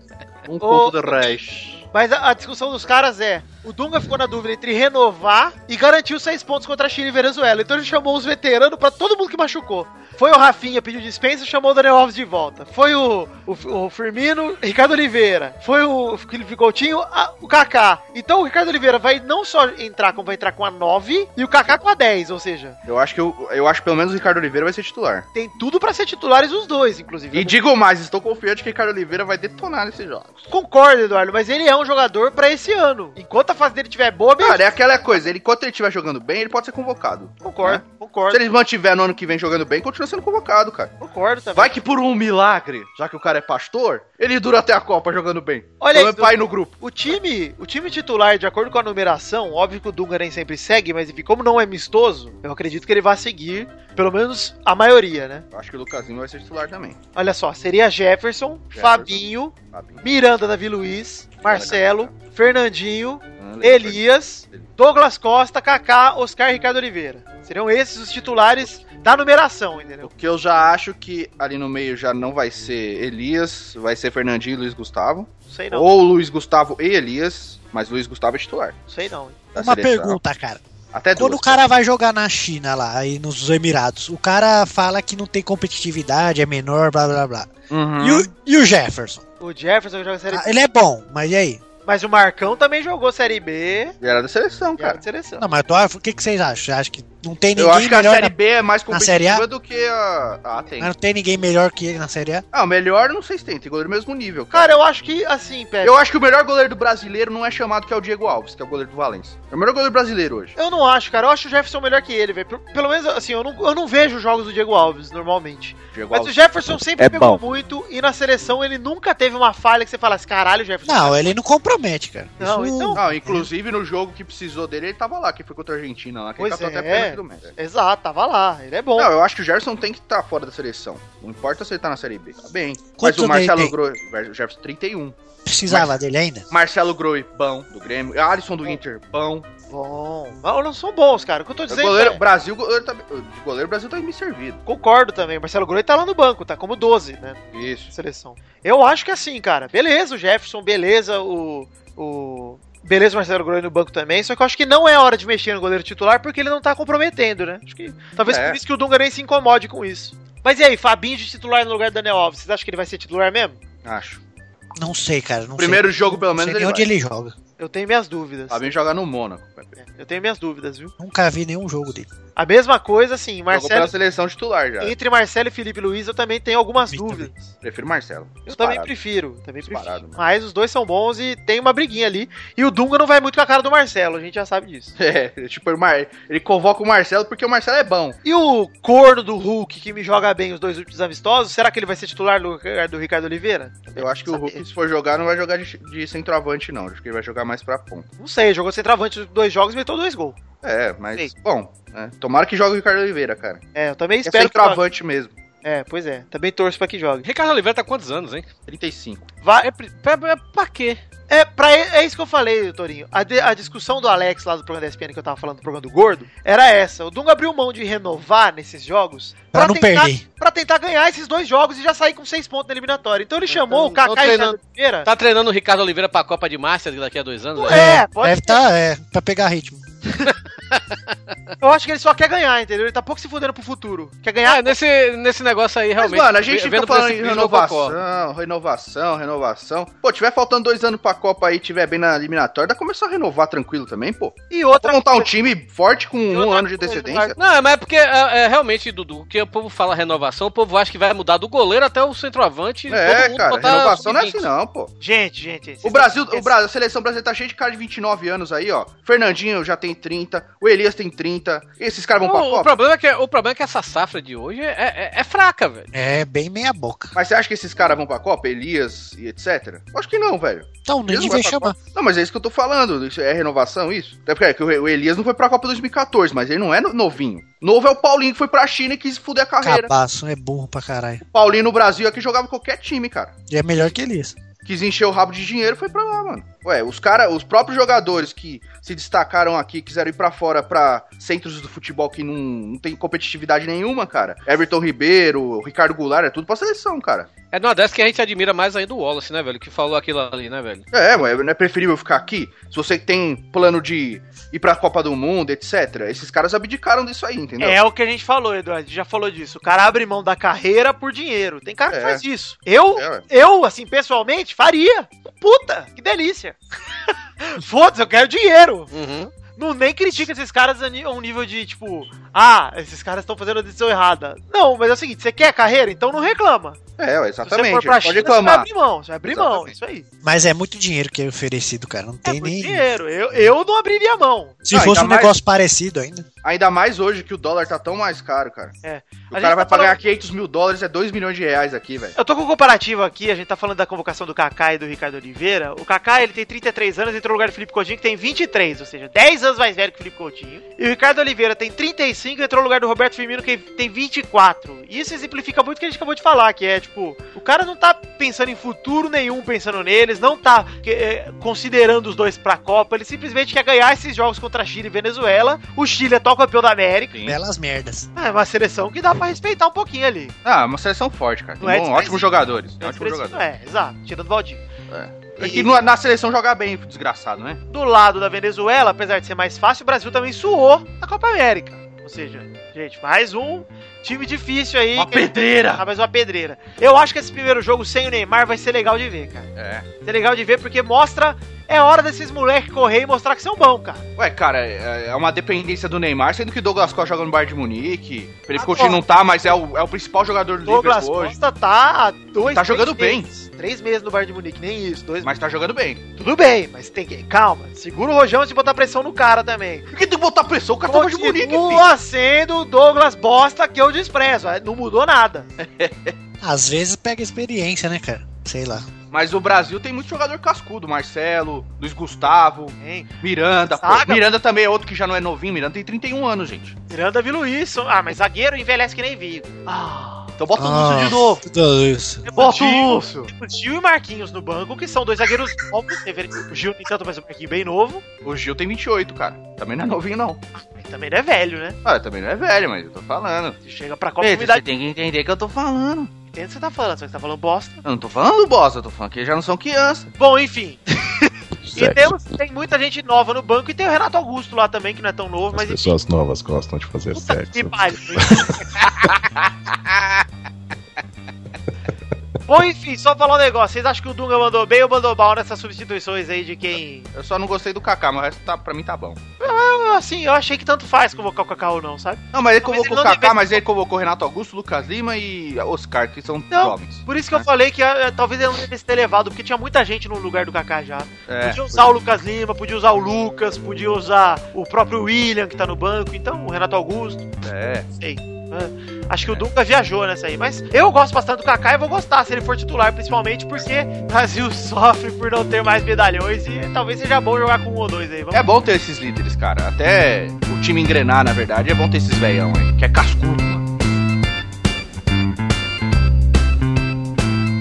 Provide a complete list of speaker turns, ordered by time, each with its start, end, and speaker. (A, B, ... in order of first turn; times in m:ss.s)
0:00.4-0:01.8 A
0:00.6-0:01.4 B
0:01.9-0:22.8 B
0:22.8-0:25.2 A
0:25.3-0:27.6 B
0:27.3-0:30.4 A
0:30.5-0:34.6 B
0:34.4-0:40.9 A
0:37.4-0:38.4 B
0:41.0-0:41.7 B
0:41.5-0:46.7 A
0:45.8-0:55.4 B
0:55.5-0:57.0 A
0:57.2-1:10.1 B
0:58.7-1:00.0 A
1:01.4-1:02.1 A
1:03.4-1:04.0 A
1:10.0-1:18.8 A
1:15.5-1:15.9 B
1:18.9-1:19.4 B
1:19.5-1:20.2 A
1:19.6-1:20.6 C
1:20.9-1:21.6 A
1:21.1-1:29.2 C
1:27.7-1:28.3 A
1:29.4-1:30.6 B
1:30.3-1:31.6 C
1:31.8-1:34.0 B
1:34.0-1:35.0 A
1:34.8-1:35.4 B
1:35.4-1:38.3 C
1:37.6-1:40.9 A
1:38.9-1:39.4 C
1:40.8-1:42.4 C
1:42.5-1:44.7 A
1:44.5-1:45.9 B
1:45.8-1:50.5 A
1:50.6-2:01.3 B
1:55.9-1:57.4 A
2:00.8-2:03.5 C
2:02.4-2:03.0 B
2:03.0-2:07.5 A
2:06.4-2:09.1 B
2:09.0-2:15.2 A
2:13.0-2:13.7 C
2:15.4-2:16.5 C
2:15.7-2:15.9 A
2:16.5-2:19.5 A
2:19.7-2:22.2 B
2:21.7-2:24.6 A
2:24.6-2:43.6 B
2:27.5-2:27.9 A
2:38.2-2:38.6 A
2:43.8-2:44.2 A
2:44.8-2:47.3 C
2:45.6-2:46.9 A
2:47.6-2:48.7 B
2:48.5-2:49.8 A
2:49.8-2:50.9 B
2:51.0-2:52.1 C
2:52.4-2:53.9 B
2:53.5-2:54.9 A
2:54.8-2:57.5 B
2:56.9-2:57.3 C
2:57.6-2:58.9 A
2:58.5-3:04.9 B
2:59.6-3:00.2 A
3:05.0-3:08.2 A
3:08.2-3:14.6 B
3:13.9-3:18.1 A
3:18.2-3:20.4 B
3:20.6-3:23.6 A
3:23.7-3:24.8 B
3:24.2-3:25.4 A
3:25.6-3:27.3 B
3:27.2-3:28.4 D
3:28.7-3:29.2 A
3:29.4-3:29.7 B
3:29.6-3:31.0 D
3:31.3-3:45.1 B
3:39.5-3:40.2 C
3:43.5-3:47.9 D
3:47.5-3:48.6 B
3:47.7-3:49.8 C
3:51.6-3:54.8 B
3:54.4-3:58.0 D
3:56.0-4:07.4 A
4:04.5-4:05.3 B
4:06.3-4:07.4 B
4:07.4-4:14.5 D
4:12.9-4:14.9 A
4:15.0-4:16.5 B
4:15.8-4:22.7 A
4:22.2-4:25.9 D
4:25.9-4:27.1 C
4:27.1-4:39.9 A
4:30.8-4:31.8 C
4:39.6-4:41.2 C
4:41.2-4:43.3 A
4:43.5-4:44.3 C
4:44.6-4:57.3 A
4:57.5-5:00.8 D
5:00.9-5:07.8 A
5:07.6-5:18.9 B
5:11.9-5:12.2 A
5:13.0-5:13.2 A
5:18.9-5:19.3 D
5:19.6-5:26.8 B
5:27.0-5:28.7 A
5:27.4-5:30.0 B
5:29.3-5:29.7 A
5:30.2-5:32.8 C
5:32.2-5:34.6 B
5:34.6-5:36.2 C
5:34.7-5:35.3 A
5:36.4-5:38.7 A
5:38.8-5:40.0 B
5:39.3-5:42.1 A
5:42.2-6:07.2 B
6:07.2-6:08.1 C
6:08.1-6:10.3 B
6:10.4-6:13.4 A
6:11.6-6:14.6 B
6:14.9-6:17.6 A
6:15.4-6:15.8 B
6:17.7-6:29.5 B
6:24.9-6:25.8 A
6:29.5-6:29.8 A
6:30.0-6:34.0 B
6:34.2-6:41.3 A
6:38.5-6:39.0 B
6:40.6-6:45.3 B
6:42.4-6:43.3 A
6:45.2-6:46.0 A
6:46.2-6:49.9 B
6:49.9-6:51.8 A
6:50.9-6:55.5 B
6:55.6-6:56.1 A
6:56.4-6:58.9 C
6:59.1-7:06.7 A
7:02.8-7:03.1 B
7:03.7-7:04.2 B
7:06.9-7:10.3 B
7:10.4-7:11.4 A
7:10.6-7:12.2 C
7:12.2-7:18.0 B
7:12.3-7:13.3 A
7:18.2-7:20.4 A
7:20.8-7:21.8 B
7:21.8-7:23.6 A
7:23.6-7:24.6 B
7:24.2-7:26.1 A
7:26.3-7:27.8 B
7:27.8-7:30.1 A
7:30.2-7:36.0 B
7:31.6-7:32.1 E
7:35.5-7:38.7 E
7:37.1-7:38.6 B
7:39.4-7:40.0 A
7:42.5-7:47.1 B
7:47.1-7:49.2 A
7:49.4-7:53.6 B
7:52.3-7:57.4 A
7:56.5-8:07.3 B
8:01.3-8:01.9 A
8:07.4-8:07.9 A
8:08.0-8:18.4 B
8:18.3-8:23.6 A